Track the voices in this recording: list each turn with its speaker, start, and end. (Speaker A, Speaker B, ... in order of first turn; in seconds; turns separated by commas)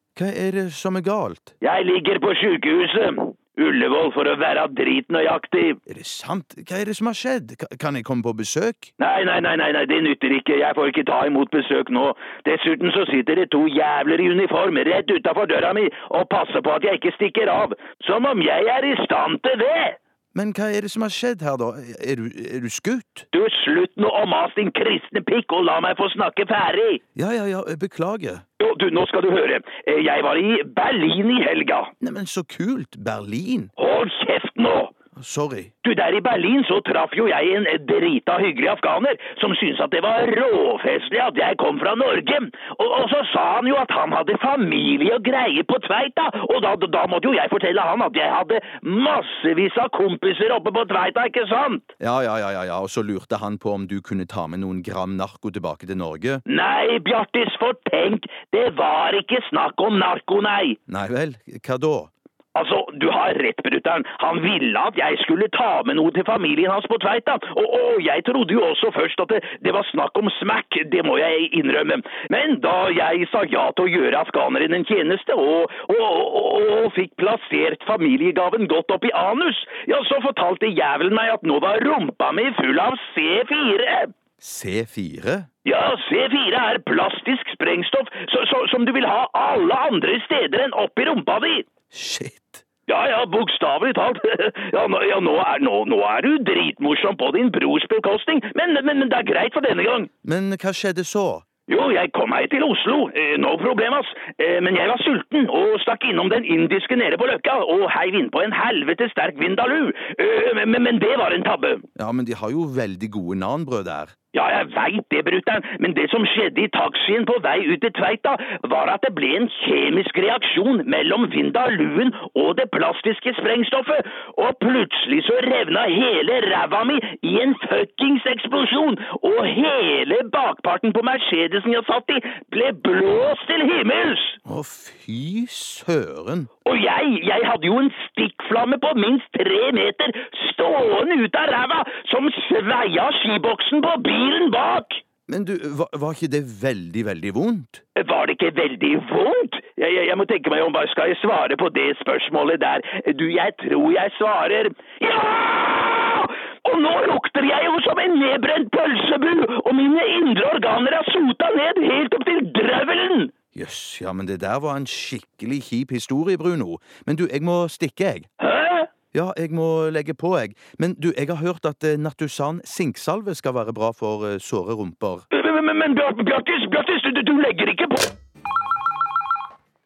Speaker A: 0.1-1.5, Speaker B: 1.6-5.8, Speaker A: 5.9-8.9, Speaker B: 9.0-20.0, Speaker A: 20.3-23.3, Speaker B: 23.3-27.0, Speaker A: 27.1-28.4, Speaker B: 28.6-31.9, Speaker A: 32.0-33.7, Speaker B: 33.8-34.9, Speaker A: 35.1-35.7, Speaker B: 35.8-51.9, Speaker A: 52.0-56.4, Speaker B: 56.5-60.8, Speaker A: 60.9-62.1, Speaker B: 62.5-84.1, Speaker A: 84.4-85.5, Speaker B: 85.6-91.7, Speaker A: 91.9-92.6, Speaker B: 92.9-100.1, Speaker A: 100.2-101.4, Speaker B: 101.7-111.8, Speaker A: 112.0-114.1, Speaker B: 114.3-134.4, Speaker A: 134.4-136.5, Speaker B: 136.7-145.0, Speaker A: 145.3-147.8, Speaker B: 147.9-163.3, Speaker A: 163.5-168.3, Speaker B: 168.4-168.9, Speaker A: 169.1-175.2, Speaker B: 175.3-178.1